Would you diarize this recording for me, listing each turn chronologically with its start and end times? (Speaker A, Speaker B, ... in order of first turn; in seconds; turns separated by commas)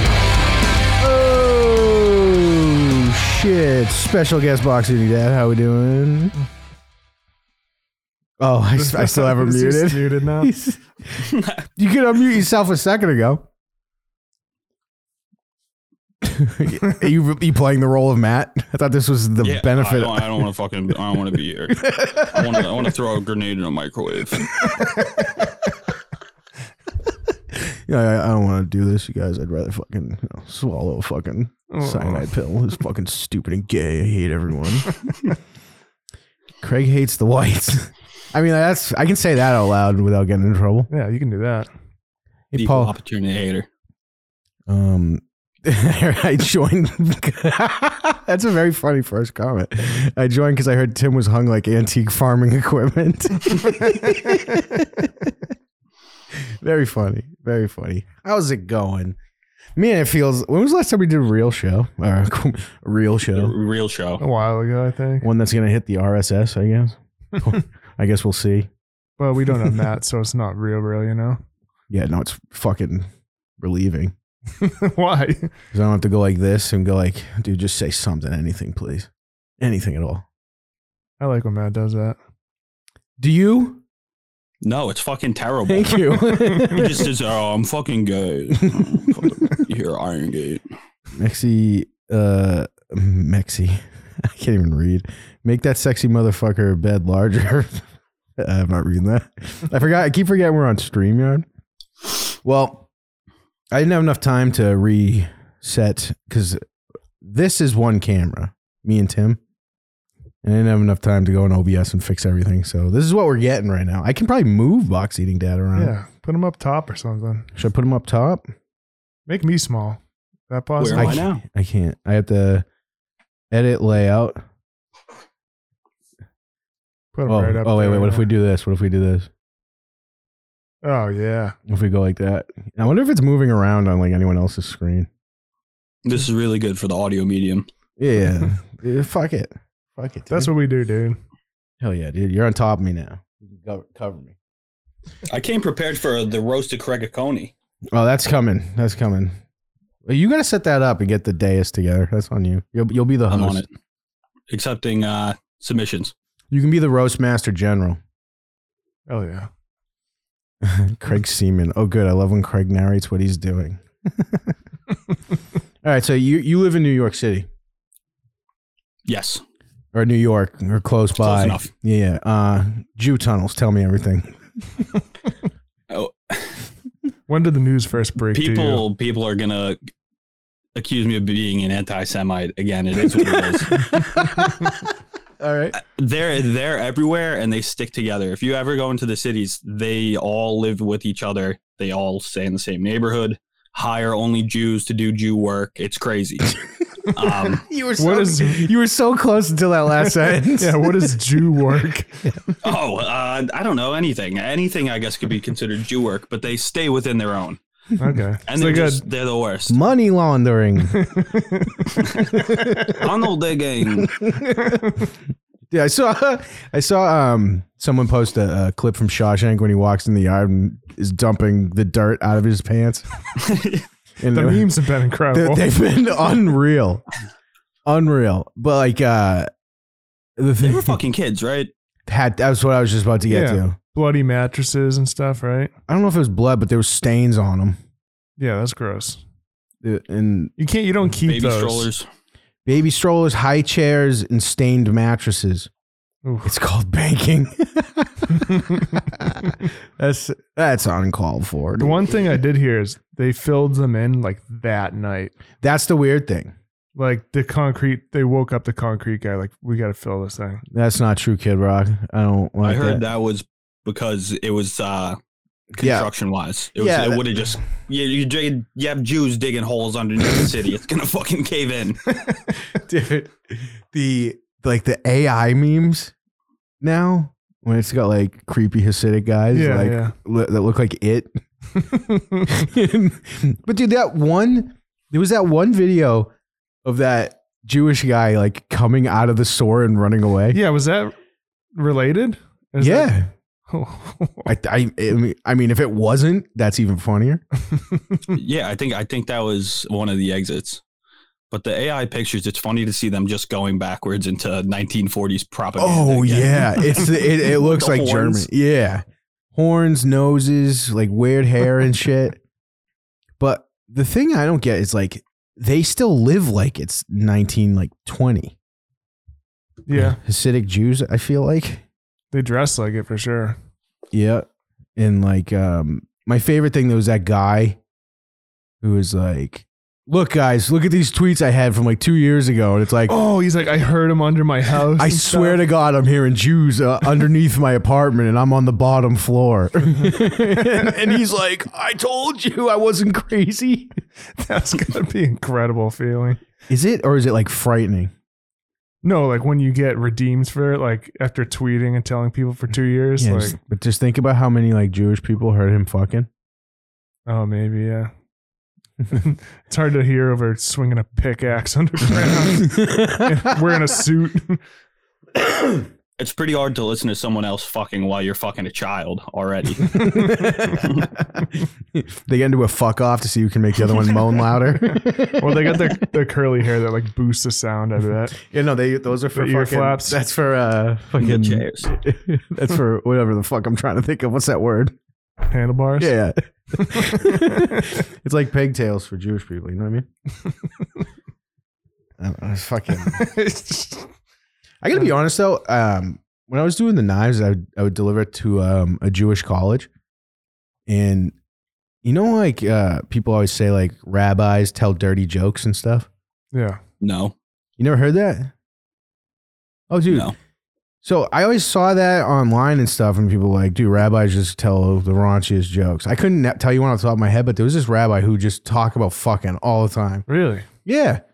Speaker A: 1.0-6.3, Speaker A: 8.4-13.5, Speaker B: 8.8-10.5, Speaker C: 11.2-11.6, Speaker A: 16.2-20.5, Speaker C: 19.4-24.5, Speaker A: 21.8-22.8, Speaker A: 27.5-34.9, Speaker B: 31.7-32.3, Speaker A: 36.6-40.9, Speaker B: 40.9-41.7, Speaker A: 42.5-42.9, Speaker C: 42.5-43.7, Speaker A: 44.7-55.3, Speaker A: 56.4-59.2, Speaker A: 59.8-63.5, Speaker C: 63.3-64.2, Speaker B: 64.2-65.3, Speaker A: 65.2-68.7, Speaker B: 69.2-71.4, Speaker A: 71.9-73.1, Speaker A: 73.6-74.1, Speaker B: 74.6-75.5, Speaker A: 75.7-80.2, Speaker B: 81.2-82.2, Speaker A: 83.2-83.8, Speaker C: 84.6-90.6, Speaker A: 85.7-87.1, Speaker A: 88.6-89.5, Speaker A: 91.2-97.8, Speaker A: 98.4-101.5, Speaker A: 102.4-102.9, Speaker A: 103.7-106.6, Speaker A: 107.2-109.4, Speaker A: 110.4-115.9, Speaker B: 115.8-117.5, Speaker A: 117.5-118.5, Speaker B: 119.3-121.2, Speaker C: 120.8-121.4, Speaker A: 120.9-122.7, Speaker A: 123.5-124.4, Speaker B: 127.1-128.3, Speaker A: 127.3-129.3, Speaker B: 130.8-131.6, Speaker A: 131.7-135.1, Speaker C: 136.1-137.7, Speaker A: 138.0-140.5, Speaker B: 140.3-141.2, Speaker A: 141.8-144.3, Speaker C: 145.3-147.5, Speaker A: 147.9-149.4, Speaker A: 150.1-153.6, Speaker C: 153.3-153.7, Speaker C: 154.5-156.1, Speaker A: 156.5-158.0, Speaker B: 159.1-159.5, Speaker A: 160.6-164.5, Speaker A: 165.8-167.5, Speaker C: 169.1-169.4, Speaker A: 169.9-174.4, Speaker C: 171.2-171.7, Speaker C: 175.9-176.6, Speaker B: 177.3-178.8, Speaker C: 178.3-179.8, Speaker C: 180.8-183.8, Speaker A: 183.7-184.7, Speaker A: 185.4-185.8, Speaker C: 185.8-196.5, Speaker C: 197.1-197.6, Speaker A: 197.3-201.1, Speaker B: 198.0-198.7, Speaker B: 200.0-202.3, Speaker C: 202.6-207.6, Speaker B: 208.0-209.0, Speaker C: 208.5-209.8, Speaker A: 209.7-211.1, Speaker B: 211.0-211.9, Speaker C: 212.0-214.1, Speaker A: 212.3-213.1, Speaker A: 213.8-214.9, Speaker B: 214.6-215.1, Speaker A: 215.7-223.1, Speaker C: 223.4-223.9, Speaker A: 224.2-224.8, Speaker B: 224.3-225.7, Speaker A: 225.3-227.0, Speaker A: 227.8-229.5, Speaker A: 230.4-231.0, Speaker C: 230.6-231.7, Speaker A: 232.1-233.8, Speaker B: 233.3-235.7, Speaker A: 235.9-237.8, Speaker B: 238.4-239.2, Speaker A: 239.8-240.5, Speaker B: 240.6-241.9, Speaker C: 241.3-242.1, Speaker A: 242.7-245.7, Speaker B: 246.2-246.6, Speaker A: 246.4-252.2, Speaker B: 248.5-248.8, Speaker B: 251.8-255.3, Speaker A: 255.6-256.5, Speaker B: 257.0-260.6, Speaker A: 260.7-263.0, Speaker C: 262.6-265.2, Speaker A: 265.8-266.1, Speaker C: 265.8-272.1, Speaker A: 266.8-267.5, Speaker A: 272.8-276.1, Speaker A: 276.8-281.4, Speaker B: 279.5-280.1, Speaker B: 281.7-282.7, Speaker A: 282.5-286.3, Speaker A: 286.8-290.6, Speaker B: 290.5-291.1, Speaker B: 291.8-293.2, Speaker A: 292.8-293.3, Speaker B: 293.7-294.5, Speaker A: 294.5-297.4, Speaker B: 297.7-298.2, Speaker C: 298.3-300.8, Speaker C: 301.5-308.5, Speaker A: 305.8-312.4, Speaker A: 313.4-318.6, Speaker B: 319.9-320.2, Speaker A: 319.9-321.9, Speaker B: 322.3-323.6, Speaker A: 324.1-327.8, Speaker A: 328.8-333.2, Speaker B: 333.1-335.6, Speaker A: 335.0-343.9, Speaker B: 340.1-341.0, Speaker B: 344.4-346.4, Speaker A: 346.7-348.1, Speaker B: 349.0-353.6, Speaker A: 353.2-356.3, Speaker B: 357.3-358.1, Speaker B: 359.1-364.6, Speaker A: 362.6-363.5, Speaker C: 366.2-370.2, Speaker A: 369.9-376.0, Speaker B: 374.9-378.4, Speaker A: 378.4-384.9, Speaker B: 379.3-380.2, Speaker C: 381.2-381.9, Speaker B: 385.5-386.1, Speaker A: 386.0-390.1, Speaker B: 386.8-387.9, Speaker A: 392.2-393.3, Speaker B: 392.9-394.1, Speaker A: 394.8-399.9, Speaker A: 400.9-401.4, Speaker A: 402.0-406.1, Speaker B: 406.5-406.8, Speaker C: 407.0-407.3, Speaker A: 407.8-408.5, Speaker A: 409.9-410.4, Speaker C: 410.1-410.4, Speaker A: 411.0-420.3, Speaker B: 420.3-420.7, Speaker A: 420.9-421.2